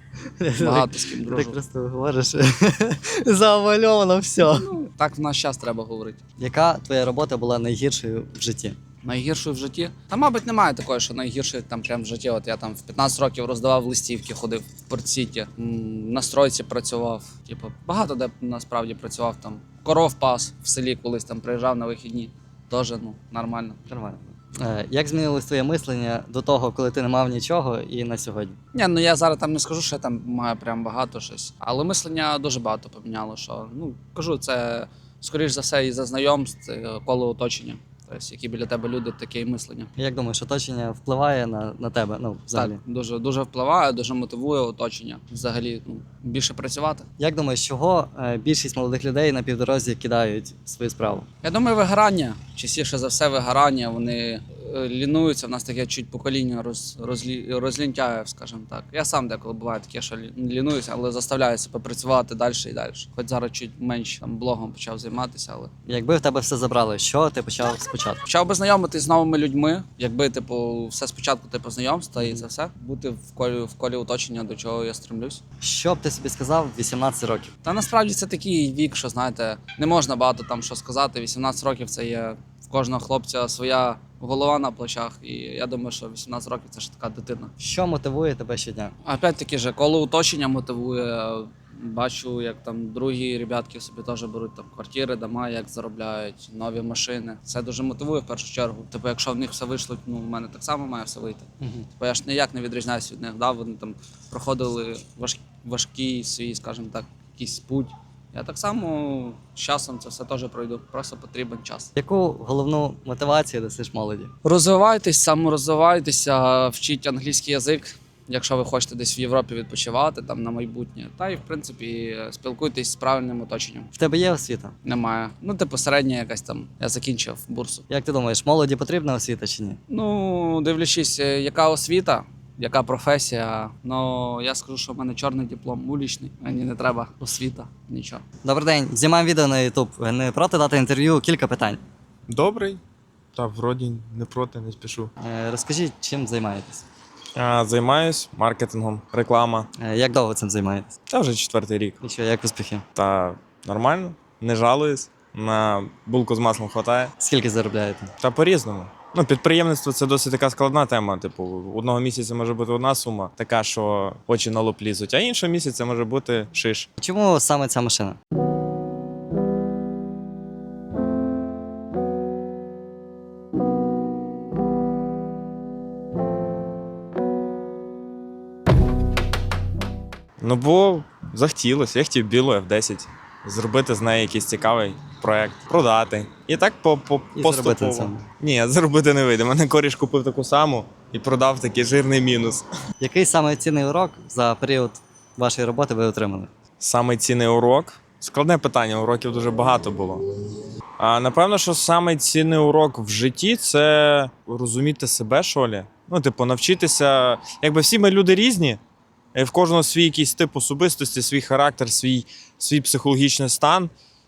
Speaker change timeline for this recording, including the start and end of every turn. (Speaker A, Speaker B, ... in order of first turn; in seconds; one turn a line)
Speaker A: 0.4-4.7
Speaker B: 0.6-1.6
Speaker B: 4.6-6.2
Speaker A: 6.4-8.8
Speaker B: 9.0-23.8
Speaker A: 23.9-28.6
Speaker B: 28.7-39.9
Speaker A: 40.0-42.8
Speaker B: 42.6-47.1
Speaker A: 47.2-51.3
Speaker B: 51.4-65.7
Speaker A: 65.9-68.2
Speaker B: 68.2-75.4
Speaker A: 72.2-72.5
Speaker A: 75.6-77.5
Speaker B: 77.6-87.5
Speaker A: 87.6-88.9
Speaker B: 89.1-111.9
Speaker A: 112.0-114.3
Speaker B: 114.4-123.9
Speaker A: 124.0-124.8
Speaker B: 124.8-127.8
Speaker A: 127.9-129.8
Speaker B: 129.9-138.2
Speaker A: 138.4-141.8
Speaker C: 142.3-142.8
Speaker C: 143.3-145.1
Speaker A: 145.2-146.8
Speaker C: 147.4-149.7
Speaker A: 149.8-151.0
Speaker C: 151.1-152.0
Speaker A: 152.0-152.8
Speaker C: 153.0-157.1
Speaker A: 157.2-158.1
Speaker C: 158.2-166.9
Speaker A: 167.0-168.2
Speaker C: 180.4-192.7
Speaker A: 187.4-188.2
Speaker A: 193.0-196.5
Speaker C: 196.8-200.2
Speaker C: 201.0-208.8
Speaker C: 209.3-213.9